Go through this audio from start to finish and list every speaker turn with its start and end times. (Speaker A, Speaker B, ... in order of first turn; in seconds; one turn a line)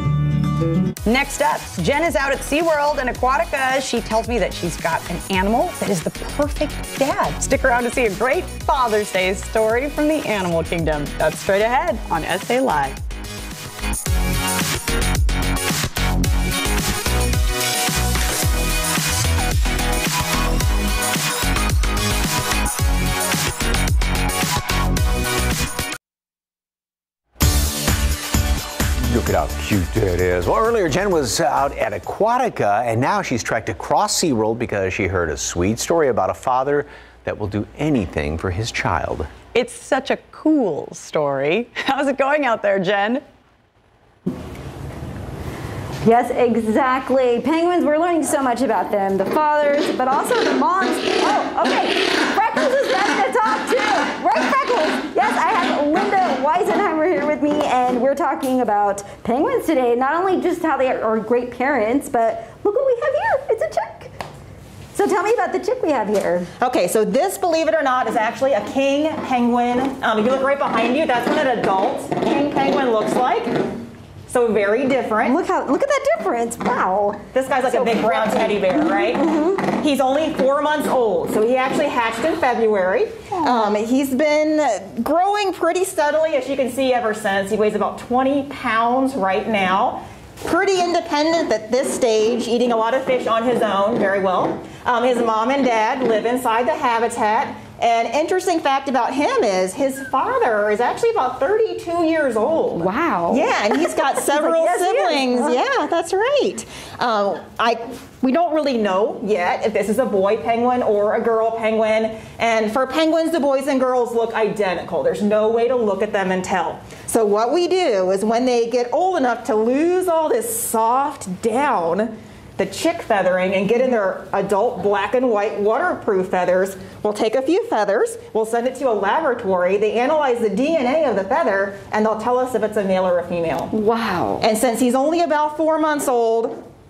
Speaker A: 1.0-13.0
Speaker B: 29.0-39.3
Speaker A: 39.5-43.2
Speaker C: 46.0-64.1
Speaker C: 64.9-66.5
Speaker D: 66.6-73.6
Speaker D: 74.3-75.4
Speaker C: 75.2-79.7
Speaker D: 77.3-133.7
Speaker C: 83.3-83.7
Speaker C: 102.8-105.6
Speaker C: 133.7-134.4
Speaker D: 134.4-136.6